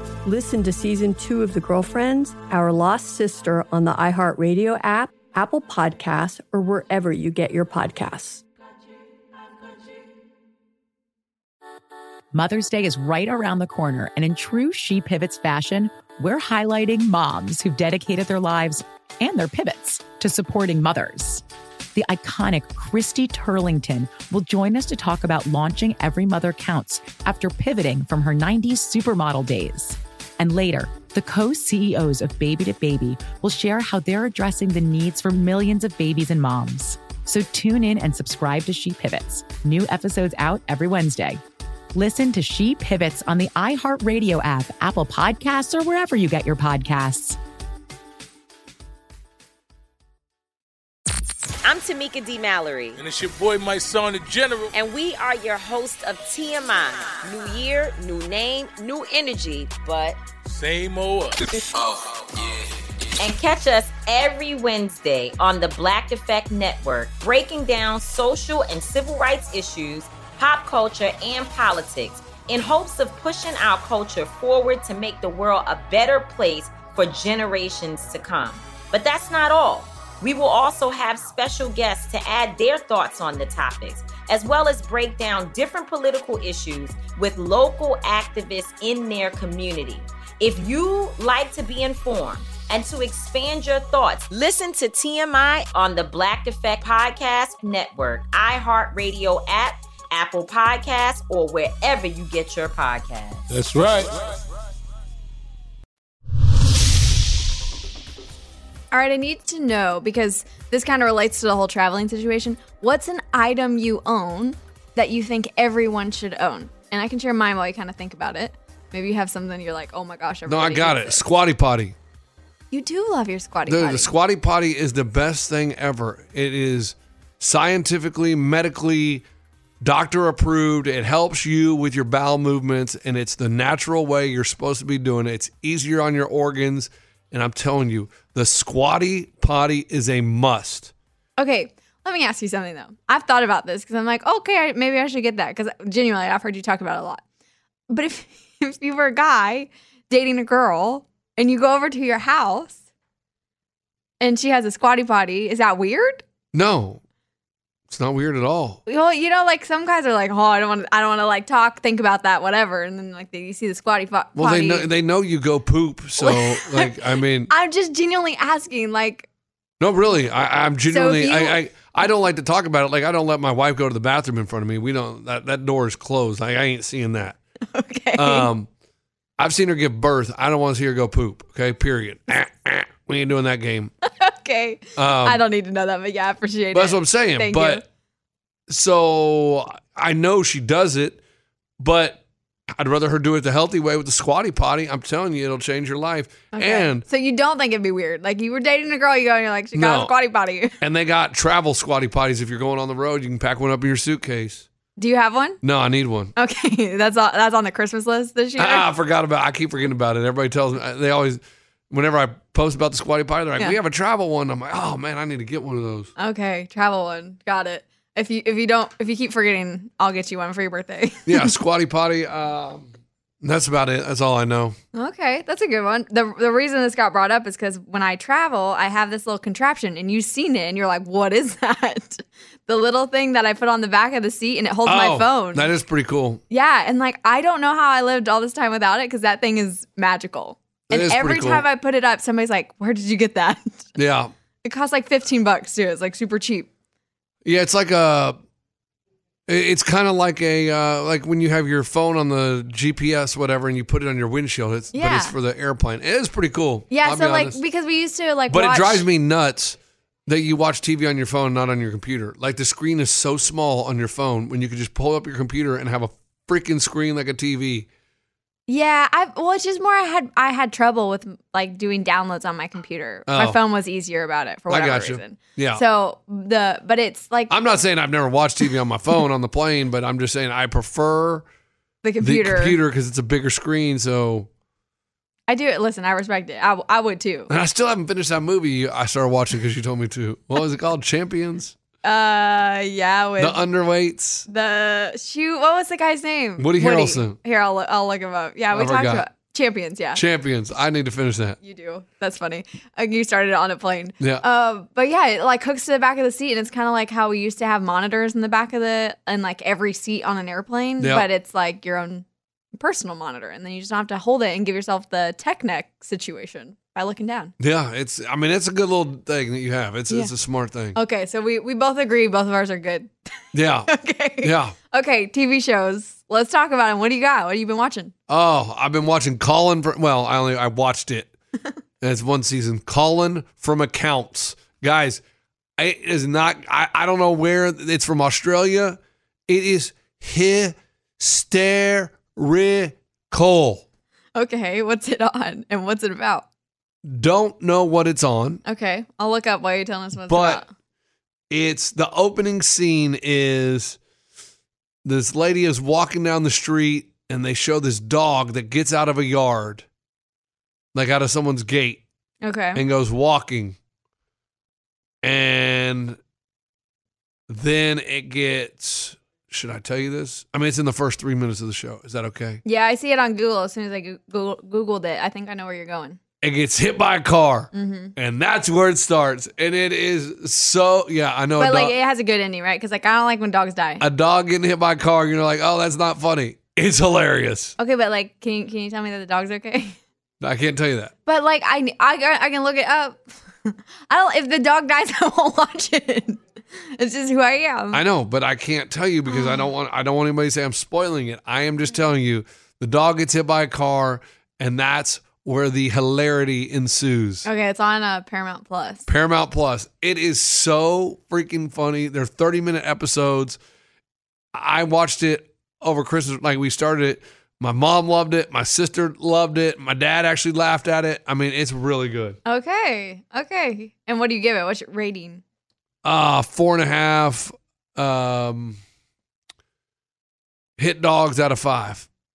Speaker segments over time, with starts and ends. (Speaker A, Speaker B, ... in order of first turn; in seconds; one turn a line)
Speaker A: 0.2-8.4
Speaker B: 12.3-21.4
Speaker B: 21.9-41.4
Speaker B: 42.0-47.4
Speaker C: 51.6-53.0
Speaker D: 53.0-54.7
Speaker C: 54.8-60.2
Speaker D: 60.5-61.5
Speaker C: 63.2-103.5
Speaker D: 103.5-104.4
Speaker E: 108.9-121.2
Speaker F: 120.5-122.0
Speaker E: 122.7-124.1
Speaker F: 123.7-129.2
Speaker F: 129.8-140.9
Speaker E: 141.4-147.2
Speaker E: 147.9-152.8
Speaker E: 154.2-156.2
Speaker F: 156.5-157.0
Speaker F: 157.9-158.8
Speaker E: 158.9-164.9
Speaker F: 164.4-167.5
Speaker E: 166.2-169.3
Speaker F: 169.8-177.4
Speaker E: 170.9-171.6
Speaker E: 177.7-178.5
Speaker F: 178.2-178.7
Speaker F: 179.4-183.9
Speaker E: 184.1-187.8
Speaker F: 185.0-185.4
Speaker F: 186.7-187.8
Speaker F: 188.7-191.2
Speaker F: 191.8-197.1
Speaker E: 196.5-200.8
Speaker F: 199.8-200.1
Speaker F: 200.8-204.7
Speaker E: 205.0-205.6
Speaker F: 205.6-206.3
Speaker E: 206.4-208.9
Speaker F: 208.6-216.1
Speaker E: 216.2-221.5
Speaker F: 221.3-222.9
Speaker F: 223.4-224.8
Speaker E: 224.9-235.7
Speaker F: 234.9-236.4
Speaker E: 236.5-243.9
Speaker F: 240.9-241.7
Speaker F: 244.0-244.3
Speaker E: 244.6-246.7
Speaker F: 247.4-248.4
Speaker F: 249.5-257.6
Speaker E: 254.9-255.4
Speaker E: 256.9-259.1
Speaker F: 258.5-267.9
Speaker E: 268.7-277.5
Speaker F: 273.3-273.6
Speaker F: 274.7-275.8
Speaker F: 277.5-281.5
Speaker E: 282.0-282.8
Speaker F: 282.2-284.5
Speaker E: 285.5-287.5
Speaker F: 287.5-291.8
Speaker E: 292.0-293.6
Speaker F: 293.4-294.5
Speaker E: 294.5-300.2
Speaker F: 296.6-297.4
Speaker F: 298.7-299.3
Speaker F: 300.1-301.6
Speaker E: 301.6-312.2
Speaker F: 311.0-311.3
Speaker E: 312.8-317.5
Speaker F: 317.6-321.0
Speaker E: 320.9-323.1
Speaker F: 323.5-324.8
Speaker E: 323.9-328.1
Speaker F: 328.3-331.3
Speaker F: 332.0-335.2
Speaker F: 335.8-343.8
Speaker E: 344.4-346.4
Speaker F: 347.0-348.6
Speaker E: 348.6-350.7
Speaker F: 350.3-350.6
Speaker F: 351.5-354.0
Speaker F: 355.1-359.9
Speaker F: 360.9-362.0
Speaker E: 362.4-362.8
Speaker F: 362.7-363.8
Speaker F: 365.2-366.2
Speaker F: 367.5-372.6
Speaker E: 372.6-376.2
Speaker F: 376.4-381.9
Speaker E: 377.7-378.1
Speaker E: 381.6-384.1
Speaker F: 384.0-387.8
Speaker E: 387.8-390.0
Speaker F: 390.4-391.1
Speaker E: 391.3-396.4
Speaker E: 396.9-398.0
Speaker F: 397.9-407.5
Speaker E: 399.3-399.7
Speaker E: 407.4-409.1
Speaker F: 409.1-413.6
Speaker F: 414.5-422.4
Speaker E: 422.5-425.4
Speaker F: 426.0-428.8
Speaker F: 430.8-432.1